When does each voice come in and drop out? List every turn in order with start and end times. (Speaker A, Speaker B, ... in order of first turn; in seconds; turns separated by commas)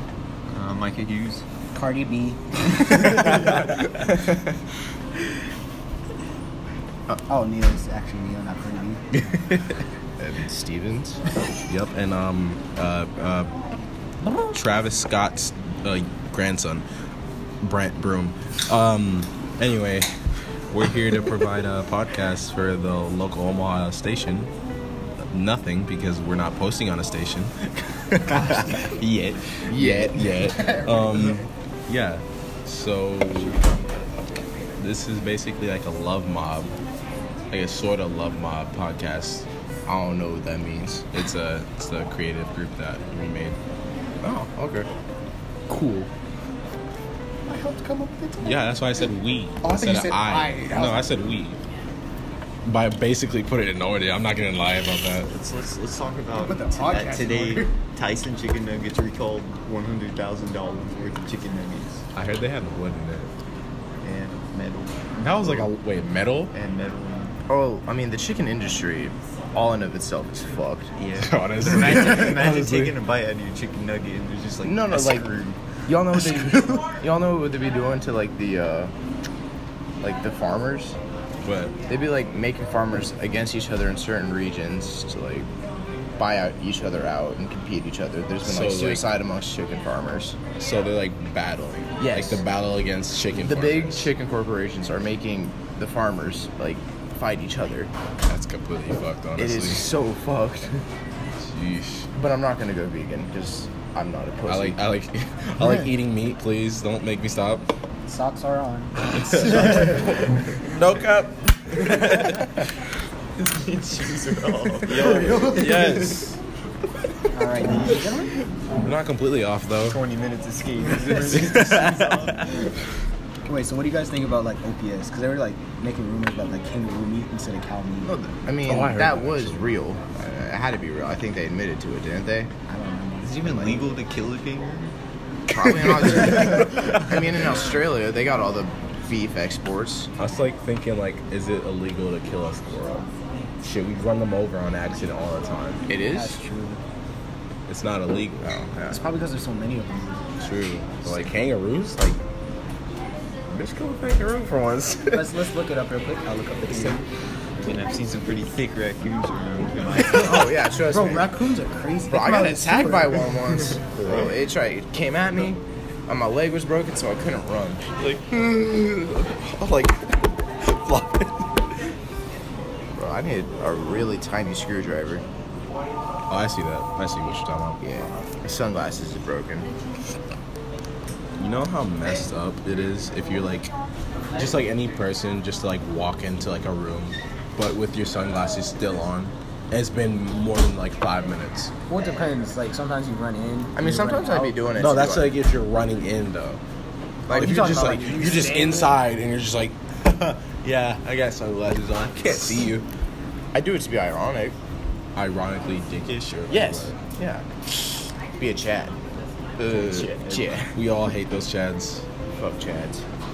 Speaker A: 0.5-1.4, Speaker B: 1.7-3.4, Speaker B: 7.3-9.0, Speaker C: 10.2-11.2, Speaker D: 11.7-13.5, Speaker D: 14.5-16.8, Speaker D: 17.6-20.1, Speaker D: 20.7-24.5, Speaker D: 25.3-28.5, Speaker A: 28.3-29.7, Speaker C: 29.7-30.7, Speaker D: 29.7-33.6, Speaker D: 34.8-36.7, Speaker D: 37.5-39.5, Speaker C: 39.9-41.0, Speaker D: 40.9-43.6, Speaker C: 44.2-44.9, Speaker D: 45.7-46.1, Speaker B: 47.5-48.6, Speaker D: 48.4-51.6, Speaker B: 49.6-51.0, Speaker D: 52.6-55.3, Speaker A: 55.3-62.0, Speaker B: 56.4-57.7, Speaker D: 62.1-63.3, Speaker A: 64.0-65.7, Speaker D: 65.2-66.5, Speaker A: 66.5-67.3, Speaker C: 67.5-70.9, Speaker A: 71.0-75.6, Speaker D: 71.2-72.9, Speaker C: 74.6-75.3, Speaker C: 75.8-78.9, Speaker A: 76.1-76.8, Speaker C: 80.0-81.0, Speaker D: 81.4-81.7, Speaker C: 81.9-85.5, Speaker C: 86.2-90.4, Speaker D: 88.4-89.0, Speaker D: 90.6-94.1, Speaker C: 92.0-92.4, Speaker C: 93.3-97.9, Speaker D: 98.3-99.9, Speaker C: 99.4-100.8, Speaker D: 101.4-102.1, Speaker C: 102.1-104.8, Speaker D: 104.5-107.7, Speaker B: 108.0-109.0, Speaker D: 109.1-110.0, Speaker D: 110.7-112.5, Speaker A: 111.9-112.2, Speaker A: 113.3-116.2, Speaker D: 114.9-116.4, Speaker B: 117.3-118.3, Speaker D: 118.8-120.0, Speaker A: 119.8-122.5, Speaker D: 121.2-122.3, Speaker B: 123.5-128.1, Speaker C: 128.0-132.5, Speaker D: 128.6-129.7, Speaker B: 132.7-133.8, Speaker A: 133.2-134.9, Speaker C: 135.5-140.1, Speaker D: 140.2-143.1, Speaker D: 143.6-145.8, Speaker C: 145.9-146.4, Speaker B: 146.1-146.8, Speaker D: 147.7-148.5, Speaker C: 148.4-149.0, Speaker B: 148.9-150.2, Speaker D: 150.4-152.2, Speaker D: 153.5-155.3, Speaker B: 155.1-157.1, Speaker A: 157.6-160.4, Speaker C: 160.1-161.3, Speaker B: 160.2-163.4, Speaker C: 162.1-167.9, Speaker A: 164.0-164.3, Speaker D: 168.0-171.5, Speaker C: 172.9-175.2, Speaker D: 176.3-177.8, Speaker C: 177.8-179.7, Speaker D: 181.4-183.7, Speaker D: 184.3-191.7, Speaker B: 191.9-194.6, Speaker C: 193.7-195.3, Speaker D: 194.7-196.6, Speaker C: 197.3-197.9, Speaker B: 197.3-199.0, Speaker D: 197.3-202.8, Speaker C: 203.5-204.5, Speaker D: 205.2-206.9, Speaker C: 206.5-209.0, Speaker C: 209.6-210.8, Speaker D: 209.7-212.1, Speaker C: 212.3-213.0